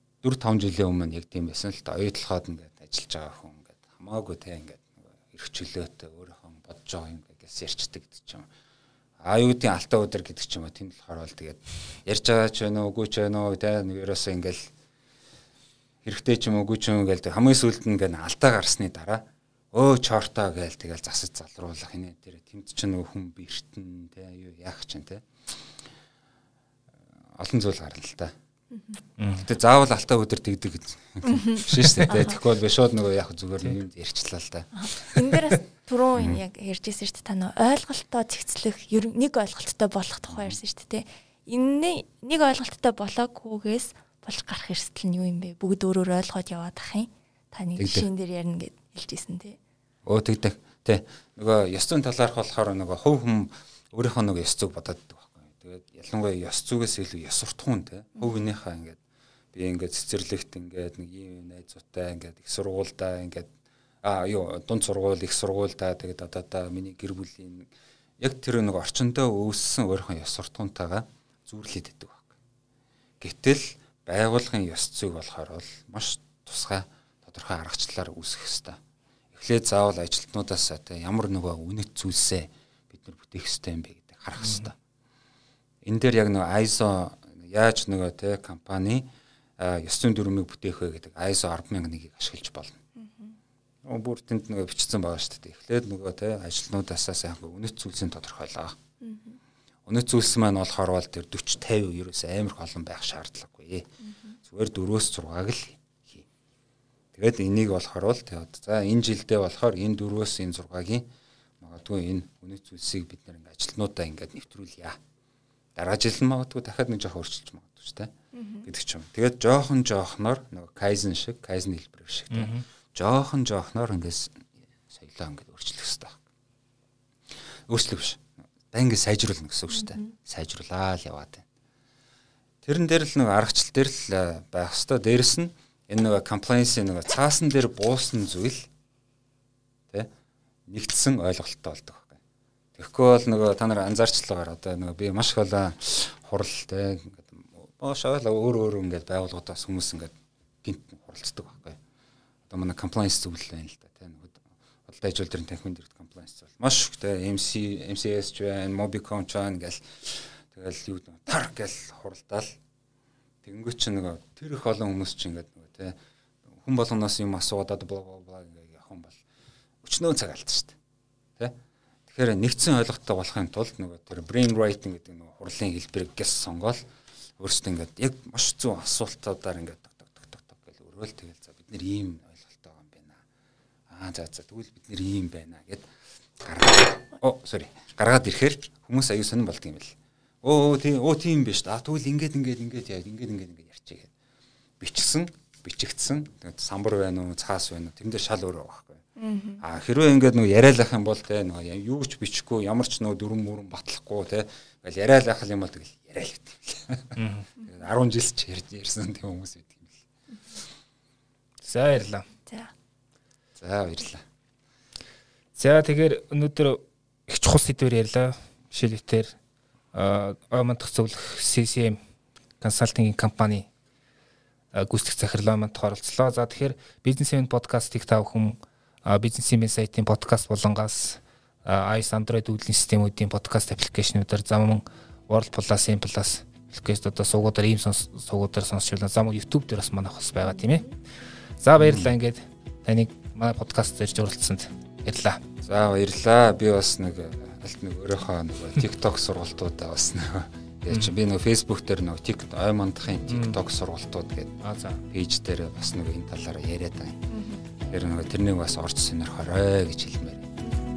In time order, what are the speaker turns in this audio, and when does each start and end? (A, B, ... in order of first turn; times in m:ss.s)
0:00.2-0:08.5 A
0:09.2-0:14.7 A
0:16.0-0:25.6 A
0:27.3-0:28.3 A
0:28.7-0:29.0 B
0:29.2-0:29.5 C
0:29.4-0:35.4 A
0:31.2-0:32.4 B
0:34.7-0:49.6 B
0:36.1-0:36.4 A
0:40.3-0:40.6 A
0:47.8-0:48.1 A
0:50.0-0:59.0 A
0:59.5-1:03.5 A
1:04.0-1:07.7 A
1:08.2-1:12.3 A
1:13.2-1:18.8 A
1:19.3-1:24.7 A
1:24.4-1:24.7 C
1:25.8-1:29.1 A
1:29.6-1:32.8 A
1:33.0-1:33.4 B
1:33.8-1:38.8 A
1:39.0-1:39.4 B
1:39.8-1:43.9 A
1:44.0-1:44.4 B
1:44.4-1:46.3 A
1:47.1-1:51.0 A
1:51.6-1:55.0 A
1:55.8-1:58.1 A
1:58.3-1:58.7 B
1:58.6-2:06.2 A
2:02.3-2:02.6 C
2:07.7-2:11.4 A
2:09.8-2:10.1 B
2:12.6-2:18.7 A
2:20.7-2:22.2 A
2:22.7-2:31.8 A
2:32.5-2:42.6 A
2:43.4-2:46.0 A
2:46.5-2:49.2 A
2:49.8-2:50.8 A
2:51.4-2:56.9 A
2:57.4-3:03.2 A
3:03.9-3:14.1 A
3:14.8-3:19.0 A
3:19.2-3:19.6 B
3:19.6-3:30.0 A
3:27.2-3:27.5 C
3:27.6-3:27.8 B
3:31.6-3:32.2 C
3:32.4-3:32.7 B
3:33.6-3:34.2 A
3:35.6-3:39.3 C
3:39.9-3:42.0 C
3:42.6-3:43.7 C
3:44.7-4:00.8 C
4:00.5-4:00.9 B
4:01.6-4:05.4 C
4:01.8-4:02.1 A
4:05.6-4:17.2 A
4:13.3-4:13.6 C
4:14.6-4:15.0 C
4:17.3-4:17.6 B
4:17.8-4:20.5 A